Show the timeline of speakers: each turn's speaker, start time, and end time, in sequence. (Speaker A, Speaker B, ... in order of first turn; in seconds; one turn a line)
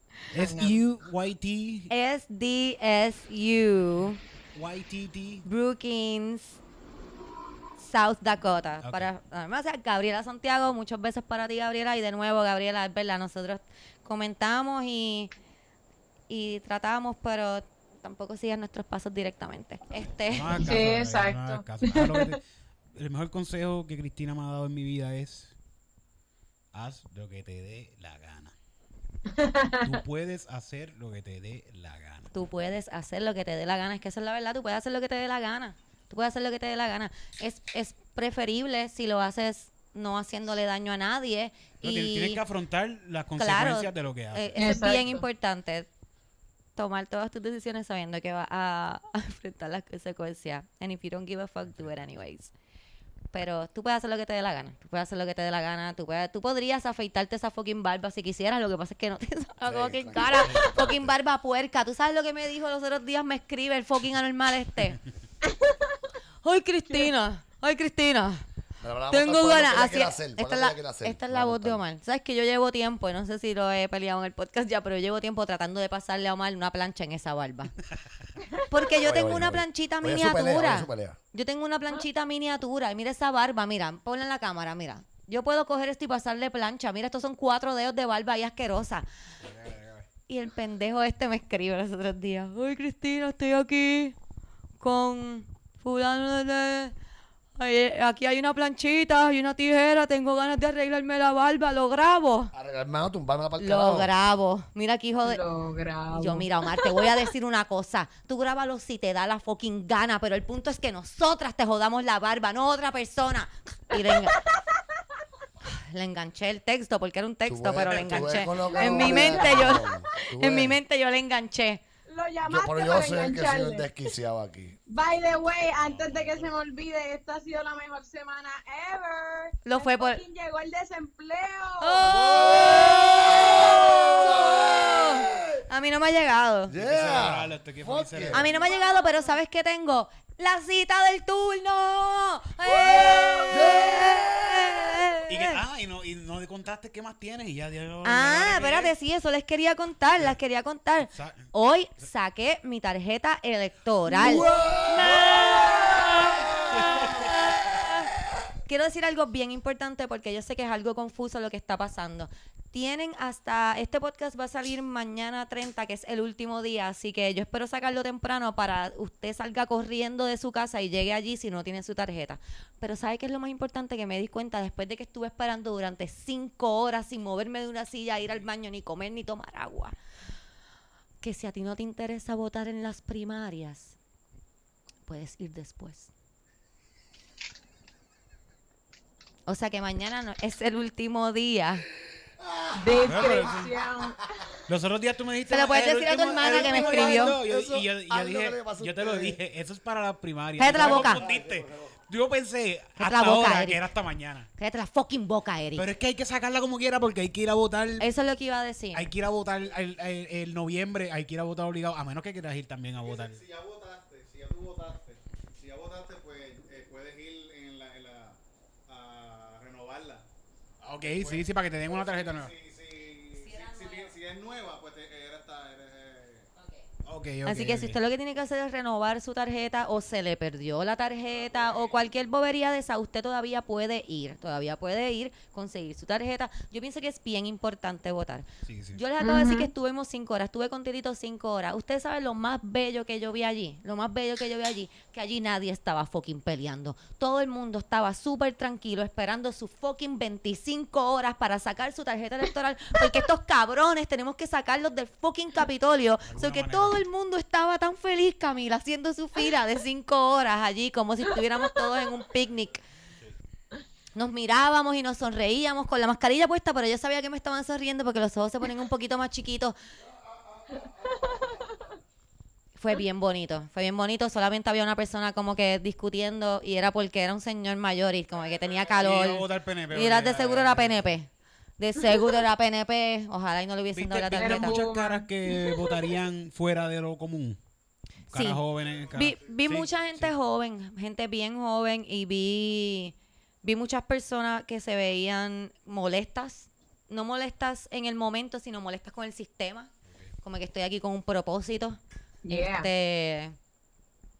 Speaker A: 0.3-1.9
Speaker B: 0.3-0.8
Speaker C: 1.9-4.2
Speaker A: 4.5-5.4
Speaker C: 5.4-6.6
Speaker C: 7.8-15.3
Speaker A: 8.8-9.1
Speaker C: 16.3-20.6
Speaker A: 20.3-22.4
Speaker B: 20.6-22.4
Speaker A: 22.9-25.6
Speaker A: 26.7-28.5
Speaker B: 29.3-30.0
Speaker A: 29.8-32.3
Speaker C: 32.3-42.4
Speaker A: 41.8-45.2
Speaker C: 43.4-45.9
Speaker B: 44.6-45.2
Speaker C: 46.8-52.5
Speaker C: 53.3-65.0
Speaker D: 59.6-61.1
Speaker B: 65.5-65.7
Speaker C: 66.4-68.4
Speaker D: 68.8-71.8
Speaker C: 69.1-77.7
Speaker C: 78.7-89.0
Speaker D: 79.0-81.2
Speaker A: 89.4-90.0
Speaker C: 90.3-94.2
Speaker C: 94.8-96.9
Speaker C: 97.6-102.5
Speaker D: 102.5-104.1
Speaker C: 103.6-105.4
Speaker B: 105.3-106.9
Speaker C: 106.1-114.4
Speaker B: 114.0-114.5
Speaker C: 115.6-121.8
Speaker D: 117.5-120.8
Speaker A: 117.8-118.7
Speaker B: 118.7-120.0
Speaker B: 122.1-123.9
Speaker D: 122.4-124.8
Speaker B: 124.9-134.3
Speaker A: 125.8-126.5
Speaker C: 129.6-130.2
Speaker C: 131.8-136.7
Speaker D: 132.3-135.6
Speaker D: 136.7-138.7
Speaker A: 136.7-138.5
Speaker C: 138.3-145.6
Speaker B: 138.6-139.3
Speaker B: 142.7-143.5
Speaker D: 143.1-144.8
Speaker A: 145.3-148.9
Speaker C: 148.0-156.1
Speaker A: 151.1-151.5
Speaker D: 154.1-157.9
Speaker A: 156.7-157.2
Speaker C: 156.9-158.1
Speaker C: 158.7-179.9
Speaker C: 181.2-183.9
Speaker C: 185.1-186.1
Speaker C: 189.4-191.8
Speaker D: 192.4-193.7
Speaker B: 192.8-194.4
Speaker A: 193.1-193.7
Speaker A: 194.7-204.5
Speaker C: 195.5-197.4
Speaker D: 196.7-199.4
Speaker C: 200.6-201.2
Speaker D: 200.7-201.9
Speaker E: 201.1-201.4
Speaker C: 203.0-203.8
Speaker C: 204.6-205.9
Speaker A: 205.8-208.1
Speaker C: 208.0-209.1
Speaker A: 208.9-213.4
Speaker E: 213.0-220.2
Speaker A: 220.8-222.5
Speaker E: 221.0-226.5
Speaker C: 223.3-224.1
Speaker C: 226.6-226.8
Speaker A: 227.1-228.0
Speaker C: 227.4-262.8
Speaker E: 231.4-231.9
Speaker A: 238.7-239.0
Speaker B: 239.2-239.7
Speaker A: 256.3-257.0
Speaker C: 264.1-269.7
Speaker C: 272.7-284.8
Speaker A: 279.0-281.1
Speaker A: 283.9-287.6
Speaker B: 284.4-285.9
Speaker A: 288.3-290.3
Speaker C: 288.3-288.6
Speaker E: 288.8-289.6
Speaker C: 289.1-299.9
Speaker C: 300.4-303.6
Speaker B: 302.4-302.9